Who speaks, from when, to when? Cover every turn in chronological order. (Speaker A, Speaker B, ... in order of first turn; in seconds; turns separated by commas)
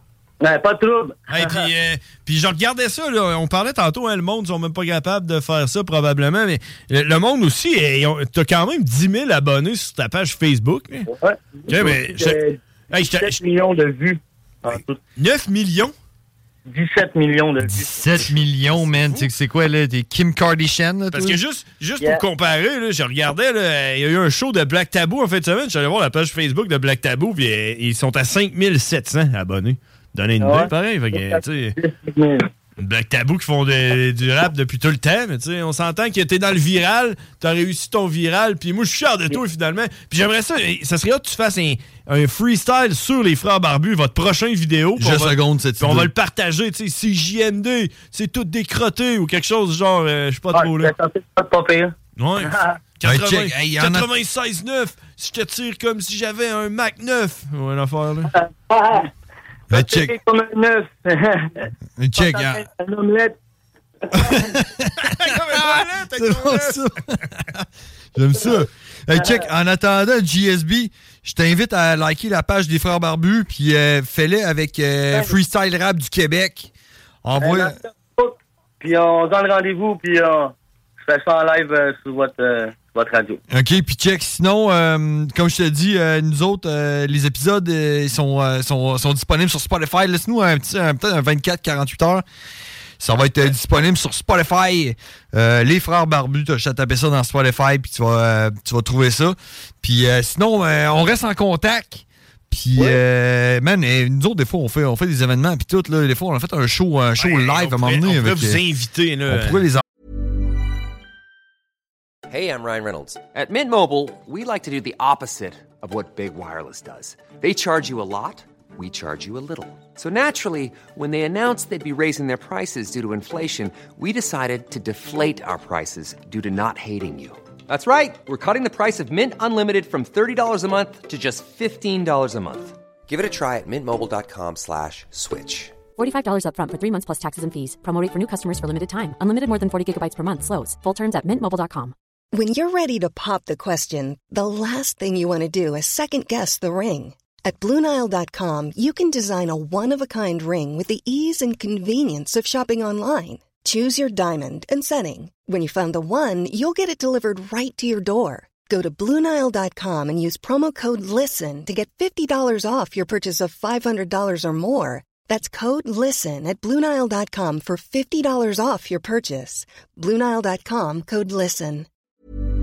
Speaker A: 0.4-1.6, Speaker B: 1.3-11.1, Speaker A: 11.1-15.0, Speaker B: 11.7-12.4, Speaker B: 12.9-13.4, Speaker B: 15.2-15.9, Speaker A: 16.7-18.4, Speaker C: 17.6-21.4, Speaker B: 18.7-19.3, Speaker B: 21.1-31.8, Speaker A: 30.4-32.5, Speaker B: 32.8-50.9, Speaker C: 45.0-46.1, Speaker A: 50.5-52.7, Speaker B: 52.2-58.3, Speaker C: 53.0-54.1, Speaker A: 58.3-59.1, Speaker C: 59.7-60.2, Speaker A: 59.7-63.4, Speaker C: 62.0-62.6, Speaker C: 64.2-67.2, Speaker B: 65.0-66.9, Speaker C: 68.1-76.7, Speaker A: 69.1-69.5, Speaker C: 77.2-77.8, Speaker A: 77.4-83.4, Speaker C: 83.5-92.2, Speaker C: 93.0-108.6, Speaker B: 107.2-109.7, Speaker C: 109.3-109.8, Speaker D: 112.3-135.8, Speaker E: 135.9-141.9, Speaker F: 142.3-171.9